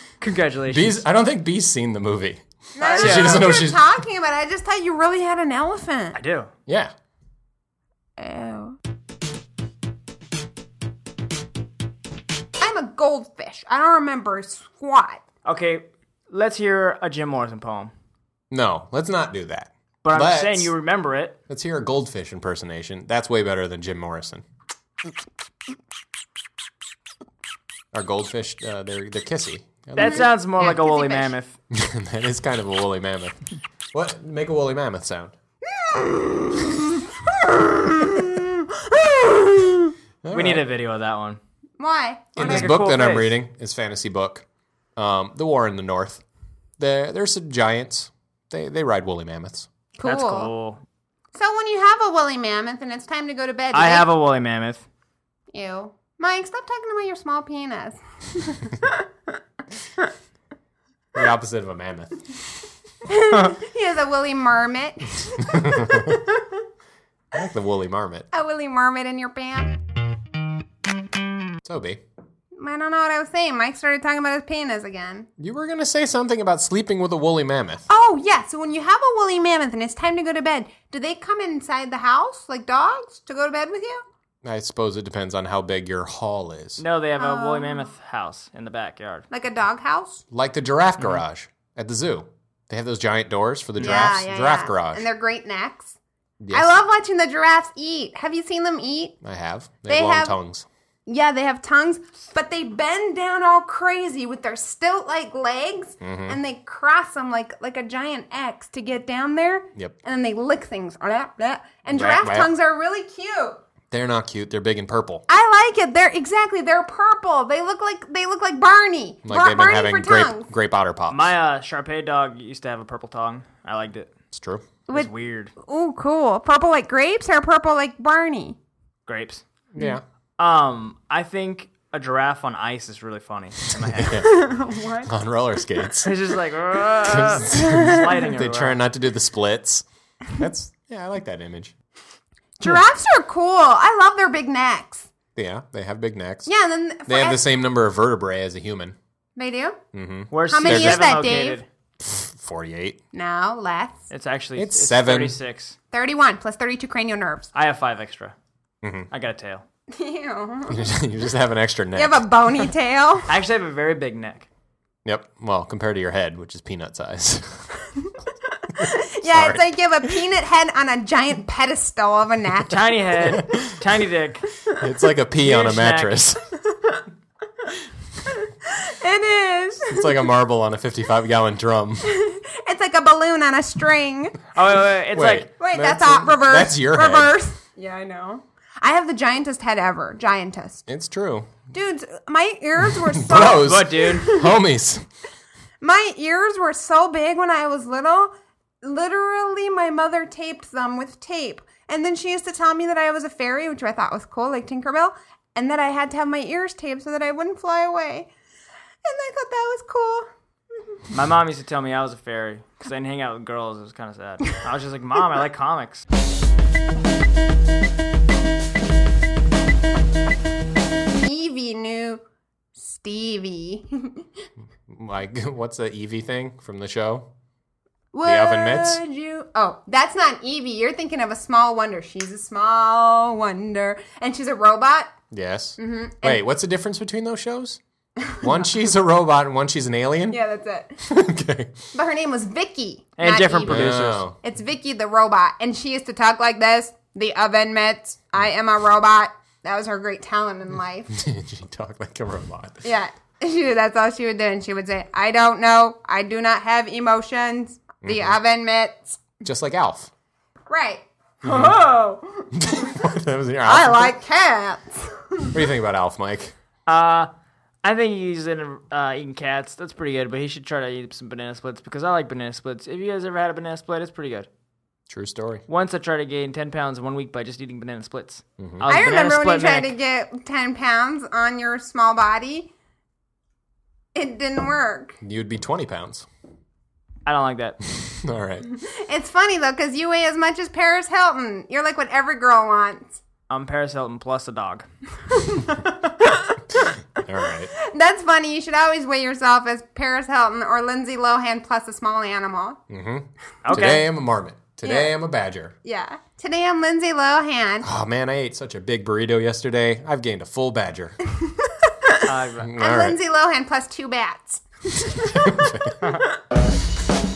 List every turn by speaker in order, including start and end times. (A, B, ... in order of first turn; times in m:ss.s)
0:00.2-0:01.0 A
0:00.7-0:03.8 B
0:02.8-0:06.2 C
0:02.8-0:03.5 A
0:06.1-0:06.5 A
0:06.7-0:06.9 B
0:08.2-0:08.8 C
0:12.6-0:15.2 C
0:15.4-0:17.9 A
0:18.5-0:20.7 B
0:20.0-0:21.4 A
0:21.5-0:24.4 B
0:27.9-0:30.3 B
0:29.9-0:31.5 A
0:30.0-0:31.3 C
0:31.7-0:33.4 B
0:33.9-0:35.3 B
0:35.7-0:39.9 C
0:40.2-0:40.7 B
0:40.3-0:41.4 A
0:41.8-0:42.7 C
0:42.4-0:44.4 B
0:42.4-0:43.3 A
0:45.0-0:46.2 B
0:46.8-0:49.7 B
0:49.9-0:50.5 C
0:50.0-0:50.8 A
0:51.3-0:54.1 C
0:53.7-0:54.8 A
0:55.5-0:59.4 C
1:01.1-1:02.5 B
1:03.0-1:06.6 C
1:05.4-1:06.2 B
1:07.3-1:08.3 B
1:08.3-1:09.8 C
1:11.6-1:12.0 B
1:12.6-1:15.3 C
1:15.4-1:17.8 B
1:17.9-1:24.0 C
1:24.4-1:26.8 B
1:26.8-1:29.2 A
1:27.2-1:27.9 C
1:29.3-1:30.2 C
1:30.3-1:35.0 B
1:33.8-1:35.9 C
1:36.4-1:36.7 B
1:36.5-1:39.1 C
1:39.2-1:40.6 B
1:39.9-1:40.4 C
1:41.0-1:53.6 C
1:46.0-1:46.4 B
1:51.9-1:52.5 B
1:53.9-1:55.2 B
1:55.3-2:00.5 C
1:59.2-2:01.3 B
2:01.1-2:04.1 A
2:04.3-2:04.7 B
2:04.9-2:08.6 C
2:04.9-2:05.5 A
2:09.1-2:09.4 A
2:09.7-2:10.0 B
2:10.4-2:14.3 A
2:13.7-2:14.4 B
2:14.2-2:15.1 C
2:15.0-2:16.1 B
2:16.0-2:18.8 A
2:17.0-2:21.7 B
2:17.5-2:18.1 C
2:22.6-2:25.1 C
2:25.3-2:26.5 B
2:26.4-2:27.4 C
2:27.1-2:29.0 B
2:29.4-2:29.8 C
2:29.9-2:31.2 B
2:30.3-2:31.6 A
2:30.5-2:31.6 C
2:32.0-2:33.0 B
2:33.1-2:34.0 C
2:34.1-2:35.7 A
2:34.6-2:35.4 B
2:35.9-2:37.5 C
2:37.5-2:38.3 A
2:38.8-2:39.1 B
2:39.1-2:39.6 A
2:39.9-2:40.9 C
2:40.7-2:42.2 B
2:41.9-2:43.4 C
2:43.3-2:44.5 A
2:45.0-2:47.8 B
2:48.7-2:52.9 C
2:48.8-2:49.7 B
2:52.7-2:54.5 A
2:53.3-2:53.8 B
2:54.8-2:56.4 B
2:55.4-2:56.2 A
2:56.7-2:57.0 C
2:58.3-3:00.2 C
2:59.9-3:02.1 B
3:02.0-3:04.4 C
3:04.5-3:05.5 A
3:05.1-3:07.4 B
3:05.6-3:10.8 C
3:10.9-3:11.6 B
3:11.7-3:14.6 C
3:13.0-3:15.0 B
3:13.4-3:14.3 A
3:15.8-3:28.3 C
3:29.0-3:30.3 C
3:31.1-3:36.0 A
3:41.2-3:42.2 C
3:42.8-3:44.3 C
3:44.9-3:47.3 B
3:48.1-3:55.1 C
3:48.2-3:49.0 B
3:55.3-3:57.8 B
3:55.8-3:56.4 C
3:58.2-3:58.6 C
3:58.4-4:00.4 B
4:00.3-4:01.0 C
4:01.0-4:01.8 B
4:01.9-4:11.2 C
4:03.2-4:04.2 A
4:03.6-4:04.4 B
4:11.1-4:12.8 B
4:12.8-4:19.2 C
4:18.0-4:18.4 B
4:19.4-4:20.1 B
4:20.7-4:23.0 C
4:21.4-4:21.8 B
4:22.5-4:24.2 B
4:23.6-4:25.6 C
4:25.5-4:26.5 B
4:26.9-4:27.3 A
4:27.8-4:34.5 A
4:35.1-4:35.6 B
4:35.7-4:39.9 A
4:38.6-4:38.8 B
4:38.8-4:42.7 C
4:44.1-4:45.2 C
4:45.2-4:46.2 B
4:47.2-4:47.8 A
4:47.9-4:48.7 B
4:48.7-4:53.2 C
4:53.5-4:54.8 A
4:55.3-4:57.2 C
4:56.7-4:57.7 B
4:57.7-5:02.8 C
5:02.9-5:05.7 B
5:03.6-5:04.1 A
5:04.8-5:05.1 C
5:05.8-5:07.9 C
5:07.8-5:11.2 B
5:11.3-5:16.4 C
5:12.2-5:12.7 A
5:12.6-5:13.2 B
5:15.1-5:16.1 B